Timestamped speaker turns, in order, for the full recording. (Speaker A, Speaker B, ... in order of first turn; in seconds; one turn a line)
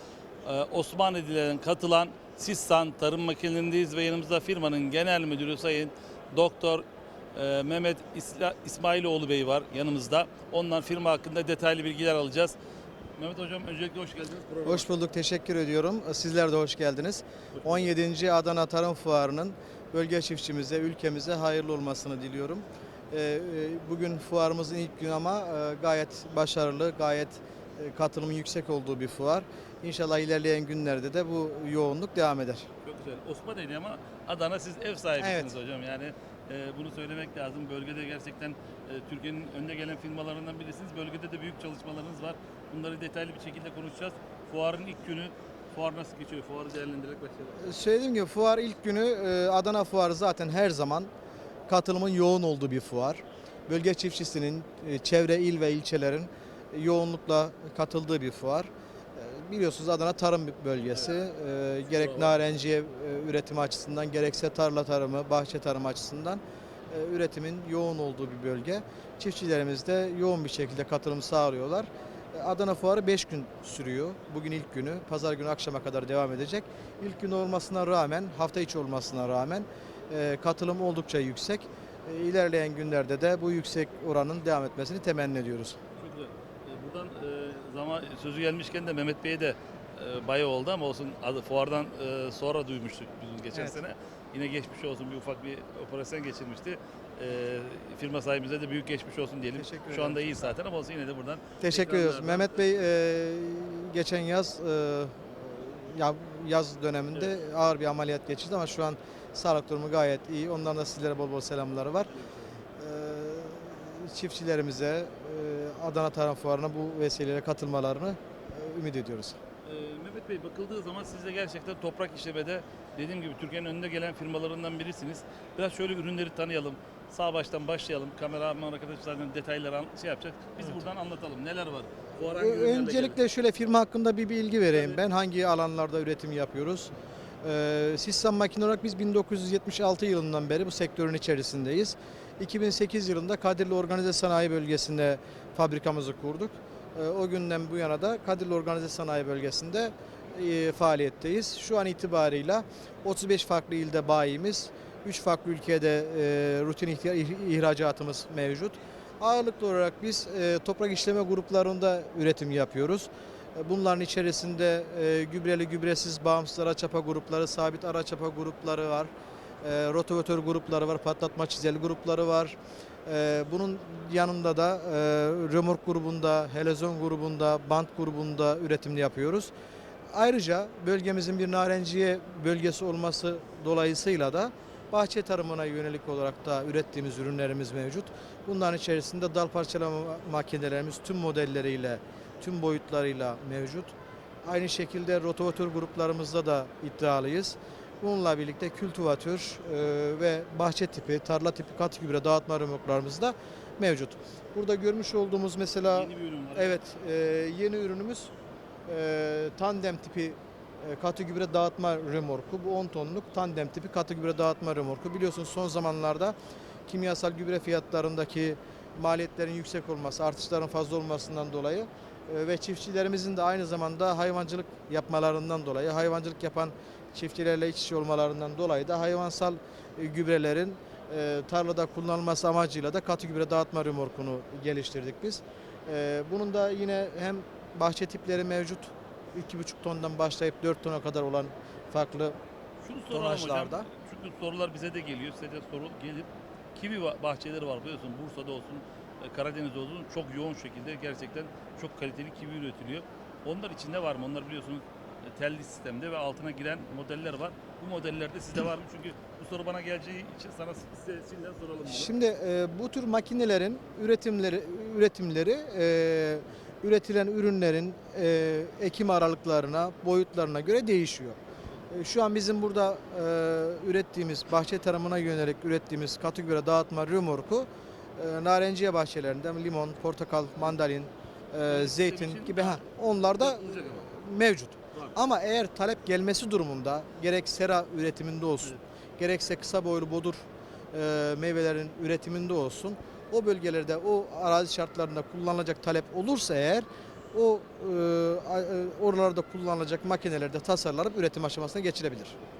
Speaker A: 0.4-6.8
Speaker A: 7.3-12.6
Speaker A: 13.2-14.9
Speaker B: 14.6-32.7
Speaker A: 17.6-17.9
Speaker A: 32.8-47.7
Speaker B: 35.2-35.5
Speaker B: 47.6-51.1
Speaker B: 51.7-85.8
Speaker A: 61.9-62.4
Speaker A: 86.0-102.8
Speaker B: 93.5-93.8
Speaker B: 99.5-100.5
Speaker B: 101.6-112.1
Speaker A: 112.1-112.5
Speaker B: 112.8-119.4
Speaker A: 119.6-133.2
Speaker B: 132.3-136.9
Speaker A: 134.7-135.0
Speaker B: 137.4-169.1
Speaker B: 169.6-179.5
Speaker B: 180.1-208.3
Speaker A: 205.8-206.8
Speaker B: 208.9-242.3
Speaker A: 242.8-262.1
Speaker B: 243.1-243.9
Speaker B: 261.9-271.4
Speaker B: 271.9-302.4
Speaker A: 281.6-282.8
Speaker A: 283.3-284.1